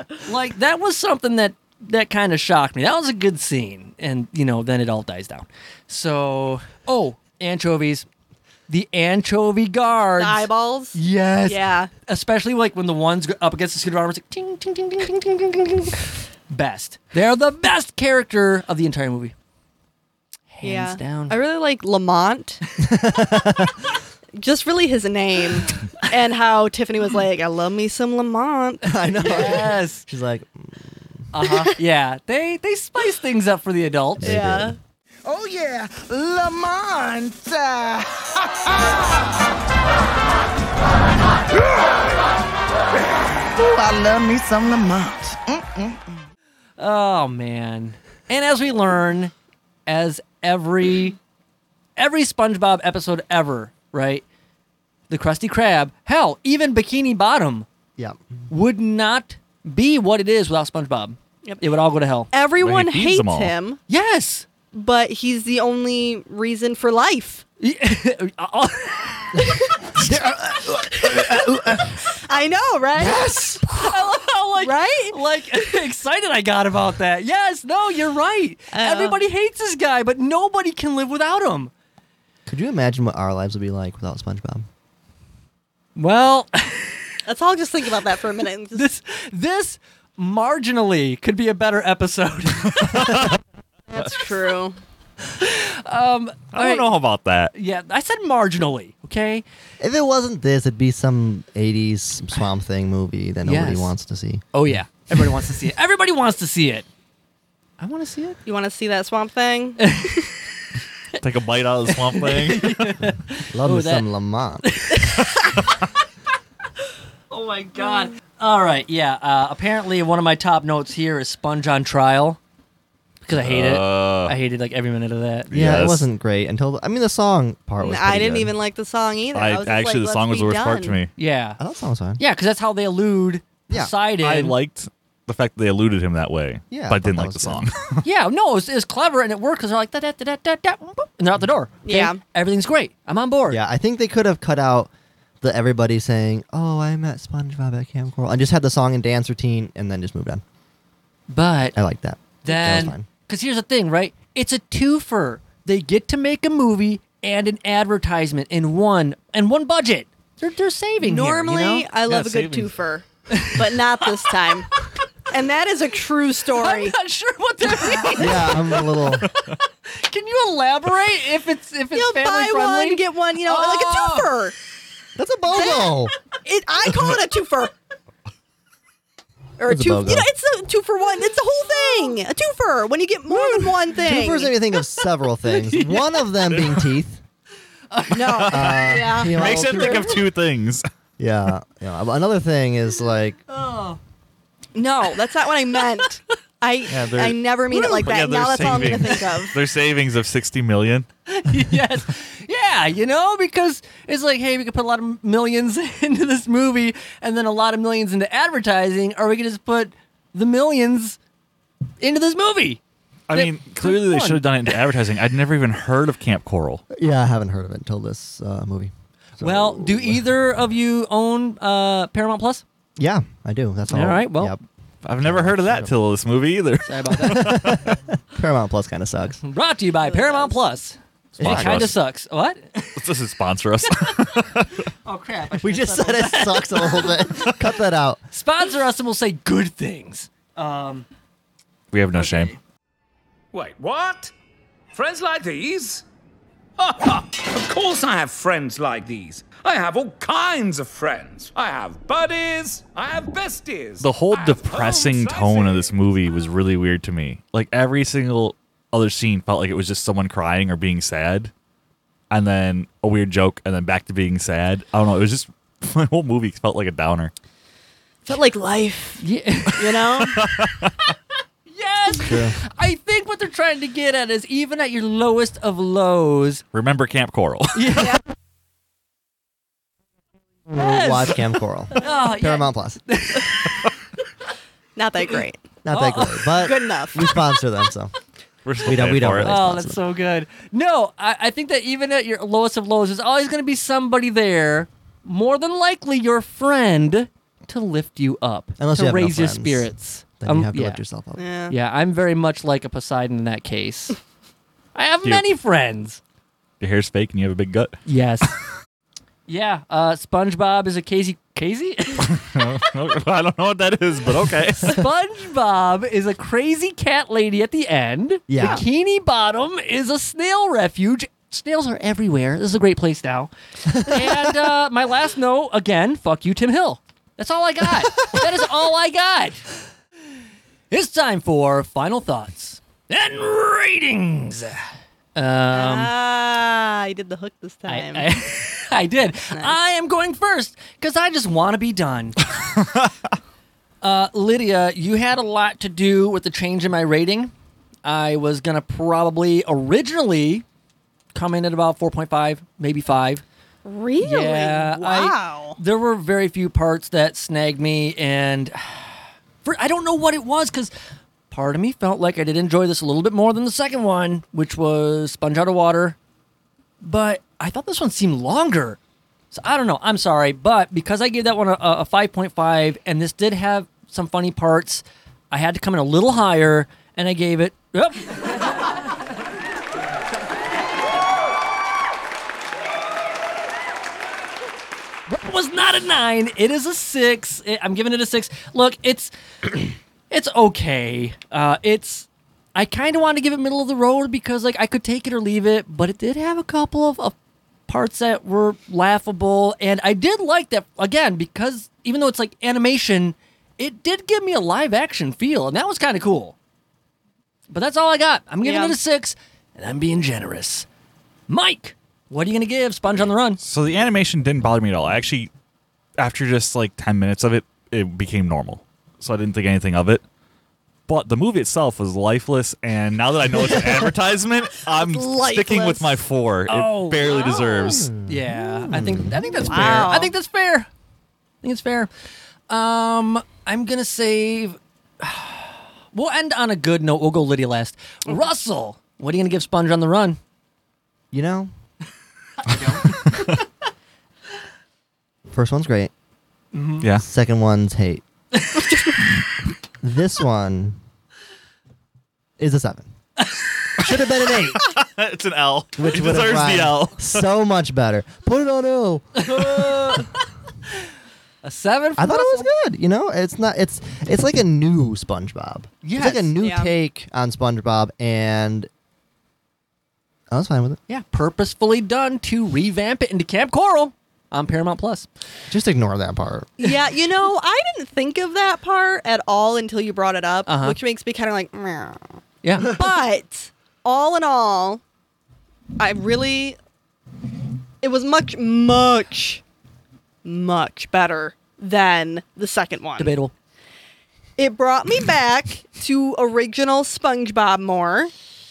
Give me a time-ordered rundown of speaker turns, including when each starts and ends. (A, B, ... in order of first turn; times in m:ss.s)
0:00.2-0:08.1 A
0:08.7-0:19.3 A
0:10.2-0:11.9 B
0:20.5-0:21.4 A
0:20.6-0:22.6 B
0:22.8-0:23.8 C
0:24.4-0:29.6 B
0:28.8-0:31.2 C
0:29.1-0:30.1 A
0:31.3-0:34.4 A
0:31.4-0:31.7 B
0:34.2-0:34.8 C
0:34.2-0:34.8 B
0:35.3-0:38.0 D
0:38.7-0:39.1 D
0:43.6-0:45.9 D
0:46.8-0:49.3 A
0:49.9-0:51.2 A
0:52.0-0:54.2 A
0:55.1-0:57.6 A
0:58.5-1:02.3 A
1:02.3-1:03.8 B
1:02.6-1:03.5 E
1:03.9-1:04.4 A
1:04.7-1:07.4 B
1:07.6-1:09.5 A
1:09.4-1:09.9 B
1:10.0-1:11.9 C
1:10.8-1:13.9 B
1:13.0-1:13.6 C
1:13.1-1:21.7 A
1:14.6-1:15.2 B
1:18.7-1:19.2 B
1:22.4-1:24.7 C
1:26.0-1:27.1 A
1:27.3-1:28.9 B
1:28.7-1:33.2 A
1:32.8-1:33.3 E
1:33.9-1:34.8 B
1:35.3-1:37.0 A
1:36.5-1:37.5 E
1:37.5-1:39.4 A
1:39.8-1:44.4 C
1:43.4-1:43.9 A
1:44.5-1:46.9 A
1:47.8-1:48.4 A
1:48.4-1:50.3 B
1:49.8-1:50.2 A
1:51.2-1:53.0 E
1:51.9-1:54.1 A
1:53.5-1:54.6 C
1:54.6-1:55.3 A
1:57.3-2:02.4 A
2:03.2-2:05.5 A
2:03.3-2:04.4 E
2:05.5-2:06.1 E
2:05.5-2:08.5 C
2:07.8-2:11.0 B
2:09.3-2:11.1 E
2:11.2-2:11.6 A
2:11.6-2:12.2 C
2:12.2-2:14.6 A
2:14.2-2:18.0 E
2:16.7-2:17.7 C
2:18.0-2:23.6 A
2:21.9-2:22.2 B
2:23.5-2:24.9 C
2:25.4-2:30.4 C
2:31.3-2:31.8 A
2:31.8-2:33.1 C
2:32.4-2:41.9 A
2:41.0-2:44.7 B
2:42.1-2:42.7 E
2:43.3-2:44.3 A
2:45.3-2:47.0 B
2:46.5-2:54.3 A
2:47.9-2:48.2 B
2:48.2-2:49.3 C
2:51.9-2:54.5 B
2:55.2-2:56.1 C
2:55.5-2:57.7 B
2:59.6-3:04.6 B
2:59.6-3:00.3 C
3:01.8-3:02.1 A
3:03.3-3:03.7 A
3:03.9-3:07.2 C
3:05.5-3:06.3 A
3:07.9-3:08.5 A
3:08.1-3:10.2 B
3:08.5-3:10.2 C
3:08.5-3:10.9 E
3:11.2-3:13.4 C
3:13.5-3:14.0 A
3:14.8-3:19.6 B
3:16.9-3:21.1 E
3:21.3-3:31.2 A
3:32.0-3:32.8 A
3:33.3-3:36.8 E
3:33.3-3:34.8 A
3:36.9-3:40.2 C
3:39.4-3:42.6 A
3:43.0-3:44.6 C
3:43.9-3:44.6 A
3:45.0-3:48.0 E
3:45.2-3:45.9 C
3:46.8-3:47.5 A
3:47.2-3:49.4 C
3:49.4-3:53.0 A
3:50.0-3:50.6 B
3:51.4-3:51.9 C
3:51.4-3:52.0 E
3:53.0-3:54.8 E
3:53.9-3:54.3 A
3:55.0-3:57.5 A
3:55.5-3:58.2 C
3:58.3-4:01.1 A
4:01.9-4:02.6 E
4:02.1-4:02.6 A
4:03.5-4:04.3 F
4:04.9-4:06.0 F
4:07.4-4:15.9 F
4:14.0-4:21.5 E
4:22.3-4:27.3 E
4:28.3-4:30.6 B
4:29.2-4:30.0 A
4:30.2-4:31.0 E
4:31.7-4:36.6 A
4:32.2-4:32.6 C
4:36.7-4:38.1 E
4:37.7-4:38.2 A
4:40.7-4:43.0 C
4:40.7-4:41.4 A
4:41.9-4:43.8 A
4:45.0-4:45.6 B
4:45.8-4:48.1 C
4:45.9-4:46.6 A
4:46.5-4:47.3 B
4:48.6-4:49.6 E
4:48.8-4:50.0 C
4:49.4-5:01.0 A
4:58.8-5:01.4 C
5:01.4-5:01.8 B
5:01.7-5:04.2 A
5:04.9-5:06.2 A
5:06.8-5:08.0 E
5:08.1-5:08.5 A
5:09.5-5:12.4 A
5:12.2-5:15.0 E
5:14.8-5:29.6 A
5:18.5-5:18.8 C
5:23.9-5:24.5 C
5:30.9-5:36.1 A
5:35.7-5:38.3 B
5:37.9-5:42.4 A
5:39.5-5:39.8 B
5:44.0-5:47.5 A
5:48.0-5:50.6 A
5:51.3-5:53.4 A
5:53.8-5:55.8 B
5:54.2-6:00.9 A
6:01.5-6:06.2 A
6:07.0-6:09.0 A
6:09.5-6:18.9 A
6:25.3-6:37.4 A
6:37.9-6:46.6 A
6:47.7-6:50.9 A
6:48.6-6:49.0 B
6:51.5-6:53.6 A
6:53.6-6:55.5 E
6:56.2-7:00.2 E
7:01.1-7:08.1 E
7:03.6-7:04.1 C
7:04.8-7:06.2 B
7:06.7-7:10.9 A
7:07.7-7:10.1 C
7:09.6-7:10.3 B
7:11.6-7:12.1 A
7:12.7-7:20.4 A
7:21.3-7:21.7 C
7:22.6-7:23.5 A
7:25.5-7:26.1 C
7:26.7-7:27.1 A
7:27.1-7:28.2 C
7:30.0-7:31.0 C
7:32.6-7:33.1 C
7:33.4-7:33.9 A
7:34.0-7:34.9 C
7:34.5-7:37.4 E
7:36.0-7:40.3 C
7:39.4-7:40.4 A
7:41.6-7:42.7 A
7:42.2-7:48.9 C
7:46.0-7:46.6 A
7:46.6-7:46.9 B
7:50.5-7:51.0 C
7:51.1-7:55.3 A
7:55.7-7:56.8 C
7:56.8-8:02.2 B
8:00.6-8:01.0 A
8:02.6-8:02.9 A
8:02.8-8:05.0 B
8:06.0-8:06.8 B
8:08.0-8:09.6 B
8:10.4-8:13.3 B
8:13.2-8:13.5 A
8:14.6-8:18.3 B